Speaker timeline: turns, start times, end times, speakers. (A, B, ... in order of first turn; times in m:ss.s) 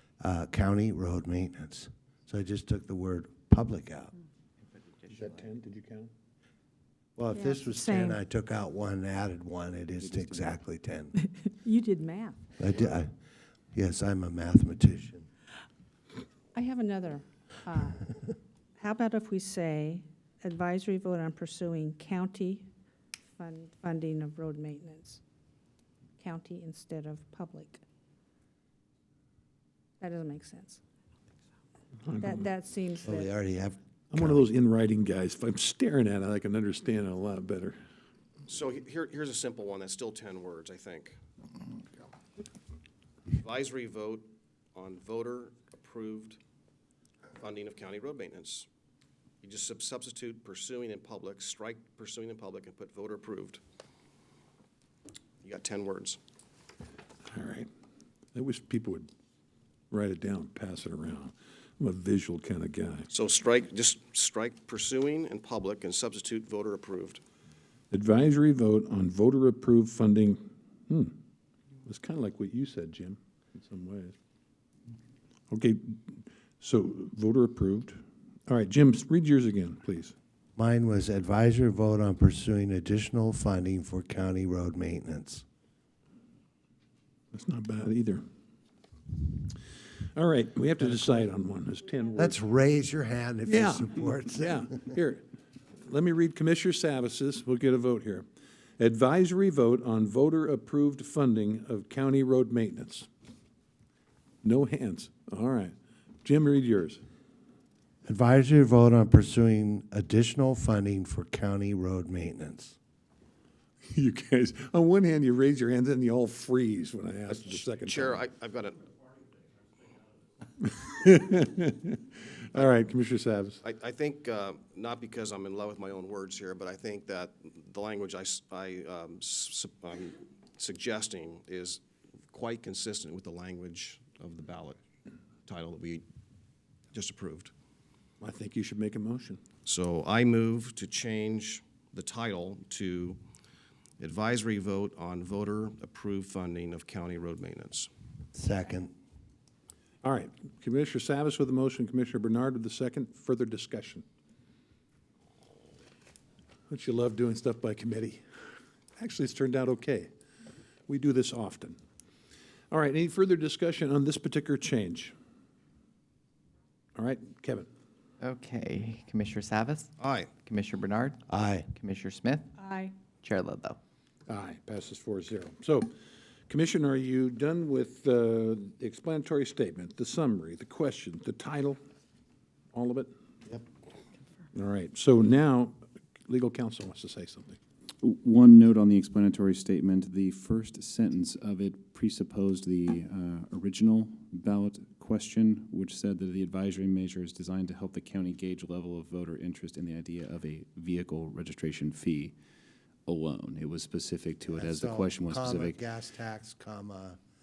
0:00.2-0:04.1 A
0:05.1-0:06.1 B
0:07.2-0:11.2 A
0:07.3-0:08.2 C
0:11.6-0:12.4 C
0:12.6-0:13.1 A
0:13.7-0:15.3 A
0:16.5-0:18.1 C
0:18.8-0:22.6 C
0:23.4-0:25.2 C
0:26.2-0:27.8 C
0:30.0-0:30.8 C
0:32.0-0:32.5 B
0:32.2-0:33.3 C
0:33.0-0:34.5 A
0:34.1-0:37.8 B
0:38.5-0:41.2 D
0:43.3-0:46.4 D
0:47.4-0:48.7 D
0:49.4-0:53.6 D
0:55.4-0:56.2 D
0:57.2-0:57.7 B
0:58.3-0:59.1 B
0:59.9-1:03.1 B
1:03.1-1:07.2 D
1:07.9-1:11.1 B
1:11.8-1:14.1 B
1:15.5-1:20.1 B
1:20.6-1:25.4 A
1:27.3-1:28.2 B
1:30.1-1:32.4 B
1:32.2-1:34.8 A
1:33.5-1:35.2 B
1:35.8-1:38.2 B
1:38.8-1:43.1 B
1:44.4-1:47.0 B
1:48.0-1:52.8 A
1:53.8-1:58.2 B
1:57.3-1:58.9 D
2:00.6-2:03.6 B
2:03.6-2:14.8 D
2:15.4-2:16.0 D
2:16.9-2:17.5 D
2:18.2-2:19.4 B
2:19.6-2:23.2 D
2:24.0-2:27.9 D
2:28.3-2:28.9 A
2:30.0-2:34.0 B
2:36.7-2:38.2 B
2:39.0-2:40.1 B
2:40.9-2:41.8 B
2:42.7-2:45.1 B
2:46.9-2:47.7 B
2:48.2-2:51.2 E
2:50.0-2:50.3 D
2:51.3-2:51.7 A
2:51.7-2:52.5 E
2:52.6-2:52.9 C
2:53.2-2:53.8 E
2:54.3-2:55.9 B
2:56.5-3:01.8 B
3:02.7-3:03.1 B
3:04.5-3:05.8 B
3:06.3-3:07.6 B
3:08.0-3:22.4 F
3:23.1-3:25.8 F
3:24.5-3:27.2 A